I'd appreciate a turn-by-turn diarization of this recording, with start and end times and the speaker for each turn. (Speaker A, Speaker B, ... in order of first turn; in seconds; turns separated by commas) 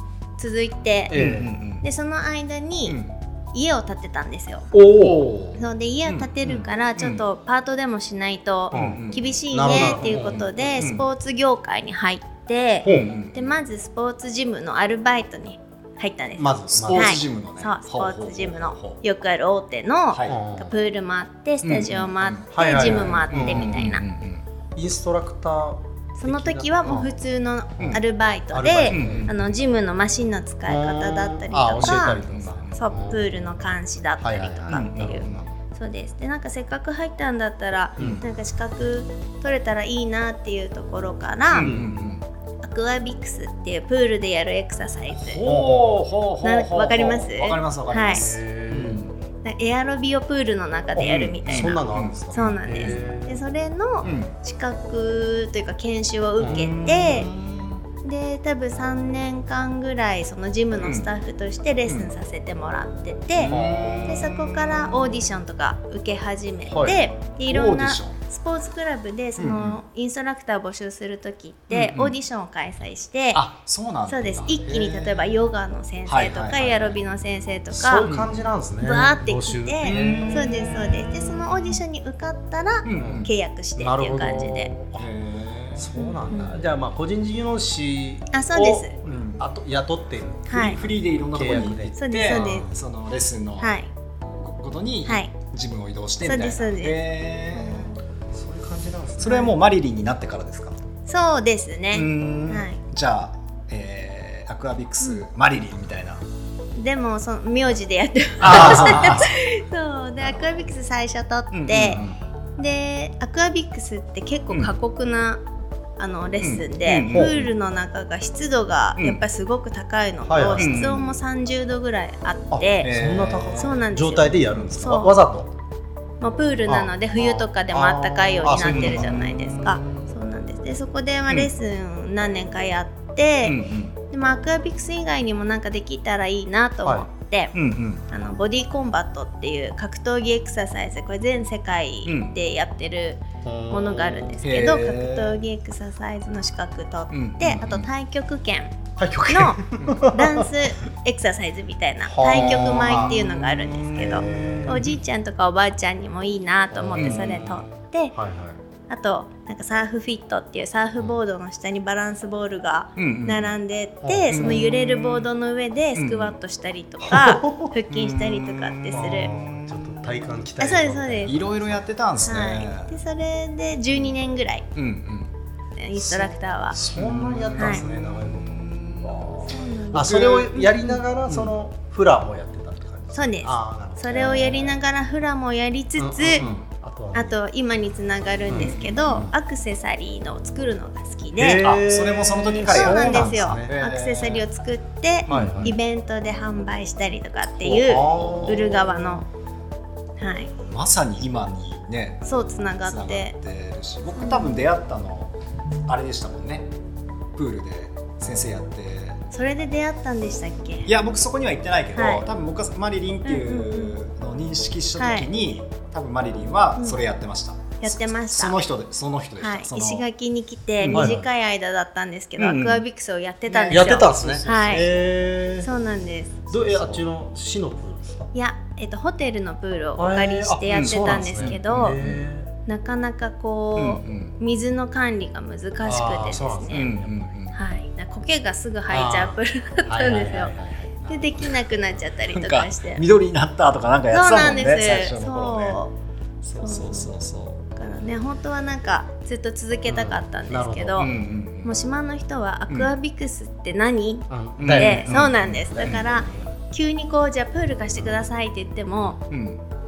Speaker A: 0.4-1.2, Speaker B: 1.1-1.6, Speaker C: 1.1-1.9, Speaker A: 1.8-3.0, Speaker C: 2.9-3.1, Speaker A: 3.5-4.7, Speaker B: 4.7-5.2, Speaker C: 4.9-7.2, Speaker A: 5.5-24.1, Speaker B: 8.7-10.6, Speaker C: 8.7-11.1, Speaker B: 12.8-13.1, Speaker C: 12.9-13.6, Speaker B: 16.4-17.2, Speaker C: 16.7-19.0, Speaker C: 20.1-20.4, Speaker B: 20.3-20.7, Speaker C: 21.6-24.4, Speaker B: 22.5-23.8, Speaker B: 24.8-27.1, Speaker A: 26.2-41.7, Speaker B: 28.5-29.3, Speaker C: 28.9-29.3, Speaker B: 30.7-33.4, Speaker C: 31.8-32.8, Speaker B: 34.2-35.5, Speaker C: 34.7-35.5, Speaker C: 38.0-38.2, Speaker C: 41.5-42.2, Speaker B: 41.6-42.2, Speaker A: 42.6-45.5, Speaker C: 45.2-49.2, Speaker B: 45.4-46.0, Speaker A: 46.4-48.3, Speaker B: 48.1-49.0, Speaker A: 49.4-57.3, Speaker B: 51.0-53.4, Speaker C: 51.3-53.1, Speaker C: 54.0-54.3, Speaker C: 56.4-57.9, Speaker A: 58.0-63.5, Speaker C: 60.8-61.1, Speaker C: 61.9-62.1, Speaker C: 63.4-65.2, Speaker B: 63.4-64.2, Speaker A: 64.1-73.4, Speaker B: 66.7-67.0, Speaker C: 67.5-68.2, Speaker C: 69.4-69.8, Speaker C: 71.7-72.2, Speaker C: 73.3-75.4, Speaker A: 74.1-78.1, Speaker C: 76.1-77.0, Speaker B: 77.7-80.5, Speaker C: 78.1-78.3, Speaker A: 78.8-84.7, Speaker C: 79.8-81.8, Speaker C: 82.8-83.3, Speaker B: 83.0-85.1, Speaker C: 85.0-86.0, Speaker B: 85.8-92.7, Speaker A: 86.0-86.6, Speaker A: 88.3-89.0, Speaker C: 89.0-89.4, Speaker A: 90.5-90.8, Speaker C: 90.5-93.7, Speaker A: 92.0-92.7, Speaker A: 93.6-93.9, Speaker C: 94.3-97.9, Speaker A: 95.1-95.3, Speaker A: 96.2-97.0, Speaker A: 97.5-98.0, Speaker B: 98.3-99.5, Speaker C: 99.2-100.8, Speaker A: 99.2-99.5, Speaker A: 101.1-102.8, Speaker C: 101.9-106.2, Speaker A: 106.8-112.0, Speaker C: 108.4-109.4, Speaker B: 108.5-109.0, Speaker C: 111.5-112.2, Speaker A: 112.6-115.4, Speaker A: 116.0-122.9, Speaker C: 116.4-117.5, Speaker B: 117.1-117.4, Speaker B: 120.2-120.8, Speaker C: 120.6-121.2, Speaker B: 122.5-125.5, Speaker C: 122.8-123.8, Speaker A: 123.6-125.2, Speaker A: 126.2-137.5, Speaker B: 126.7-129.2, Speaker C: 128.6-130.1, Speaker C: 133.4-134.0, Speaker C: 137.5-138.1, Speaker A: 138.1-148.8, Speaker C: 142.1-142.3, Speaker B: 143.4-144.4, Speaker C: 144.4-145.4, Speaker C: 147.1-147.9, Speaker B: 149.0-150.5, Speaker A: 149.3-158.1, Speaker C: 149.8-150.1, Speaker B: 152.1-153.2, Speaker C: 152.3-155.0, Speaker B: 153.9-154.8, Speaker B: 156.7-158.6, Speaker C: 157.0-157.6, Speaker A: 158.9-169.3, Speaker C: 163.0-163.6, Speaker B: 164.0-164.6, Speaker C: 164.3-165.3, Speaker C: 166.0-166.4, Speaker B: 167.1-167.7, Speaker C: 167.9-170.2, Speaker B: 168.9-171.7, Speaker A: 170.6-171.4, Speaker C: 171.3-172.9, Speaker A: 172.2-174.7, Speaker C: 174.7-175.3, Speaker A: 175.8-176.8, Speaker B: 176.0-184.8, Speaker C: 176.9-180.5, Speaker A: 177.6-177.8, Speaker A: 179.4-181.0, Speaker C: 181.3-181.5, Speaker A: 183.1-186.5, Speaker B: 186.0-187.4, Speaker C: 186.4-186.7, Speaker A: 187.1-191.7, Speaker B: 188.5-189.3, Speaker C: 188.5-189.0, Speaker B: 191.4-193.7, Speaker C: 191.6-194.5, Speaker A: 192.7-199.3, Speaker B: 195.3-195.8, Speaker C: 195.3-195.7, Speaker C: 197.5-198.9, Speaker B: 197.8-198.9, Speaker A: 200.2-200.5, Speaker C: 200.7-202.2, Speaker A: 202.2-203.3, Speaker C: 202.8-205.3, Speaker A: 204.2-204.7, Speaker C: 205.9-206.7, Speaker C: 207.4-209.2, Speaker A: 209.3-210.9, Speaker C: 210.9-220.1, Speaker A: 211.9-212.2, Speaker A: 213.2-213.9, Speaker A: 215.0-215.3, Speaker A: 217.8-218.6, Speaker A: 219.4-224.9, Speaker C: 220.8-221.2, Speaker B: 220.9-221.3, Speaker C: 222.4-222.8, Speaker C: 223.5-225.7, Speaker B: 223.7-225.4, Speaker A: 225.6-226.5, Speaker B: 226.5-228.3, Speaker C: 226.5-227.1, Speaker A: 228.3-232.0, Speaker B: 230.0-232.5, Speaker C: 230.7-232.3, Speaker A: 232.7-236.9, Speaker C: 233.8-234.3, Speaker B: 235.8-237.3, Speaker C: 236.7-237.6, Speaker A: 237.5-240.5, Speaker B: 238.9-241.5, Speaker A: 241.1-243.0, Speaker C: 242.3-245.8, Speaker A: 244.1-245.9, Speaker C: 246.5-247.6, Speaker A: 246.6-247.1, Speaker A: 247.8-259.2, Speaker B: 249.9-251.1, Speaker C: 251.0-251.7, Speaker B: 254.3-256.5, Speaker C: 254.6-256.0, Speaker C: 259.1-259.6